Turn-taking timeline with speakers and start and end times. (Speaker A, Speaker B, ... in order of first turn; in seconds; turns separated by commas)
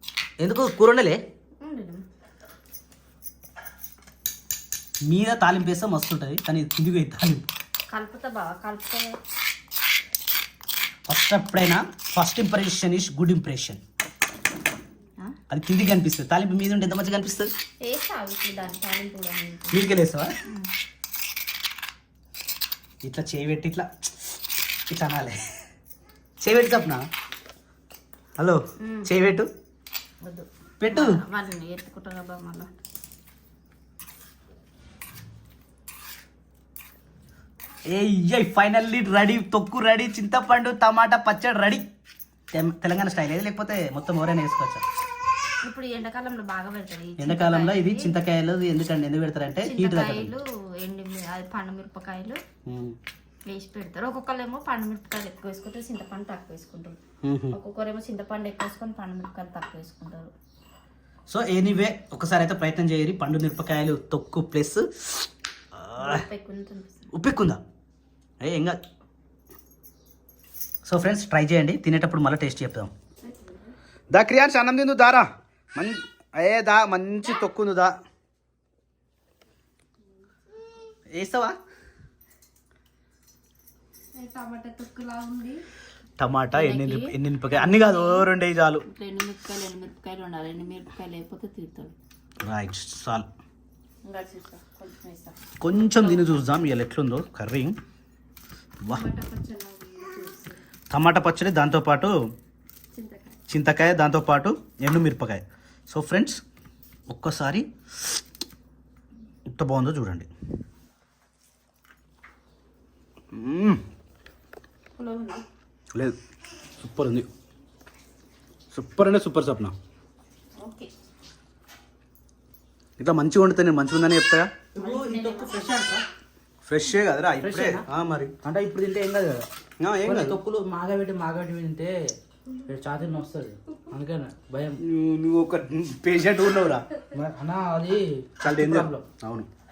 Speaker A: 0.4-1.2, Speaker B: 1.6-2.0, Speaker A: 5.1-7.5, Speaker B: 7.9-9.2, Speaker A: 11.1-13.8, Speaker A: 15.5-17.5, Speaker B: 17.8-19.9, Speaker A: 19.7-20.3, Speaker A: 23.0-24.1, Speaker A: 24.9-25.6, Speaker A: 26.4-27.1, Speaker A: 28.4-29.5, Speaker B: 28.8-29.1, Speaker B: 30.2-32.7, Speaker A: 30.8-31.2, Speaker A: 37.9-41.9, Speaker A: 42.5-44.8, Speaker B: 45.6-48.1, Speaker A: 47.2-50.3, Speaker B: 49.6-52.4, Speaker A: 52.7-53.0, Speaker B: 53.5-57.0, Speaker A: 57.2-57.6, Speaker B: 57.5-60.3, Speaker A: 61.3-66.2, Speaker B: 66.0-67.1, Speaker A: 67.1-67.6, Speaker A: 68.4-68.8, Speaker A: 70.9-72.9, Speaker B: 73.2-73.6, Speaker A: 74.1-78.0, Speaker A: 81.1-81.6, Speaker B: 84.2-85.6, Speaker A: 86.2-88.8, Speaker B: 86.5-88.3, Speaker B: 88.9-91.9, Speaker A: 92.4-93.3, Speaker B: 94.0-95.4, Speaker A: 95.6-97.8, Speaker B: 96.0-96.3, Speaker B: 98.9-100.6, Speaker A: 100.9-102.1, Speaker B: 102.9-103.4, Speaker A: 103.5-106.4, Speaker A: 107.1-107.7, Speaker A: 109.5-110.3, Speaker A: 113.3-113.8, Speaker B: 115.0-115.5, Speaker A: 116.8-117.3, Speaker A: 118.7-119.8, Speaker B: 120.6-120.9, Speaker A: 123.0-124.5, Speaker C: 124.8-126.0, Speaker B: 124.8-125.6, Speaker A: 126.7-128.3, Speaker C: 127.4-127.9, Speaker C: 128.4-129.5, Speaker A: 129.8-130.4, Speaker C: 130.1-131.9, Speaker C: 132.7-134.8, Speaker A: 134.8-136.9, Speaker C: 137.1-139.1, Speaker A: 138.4-139.5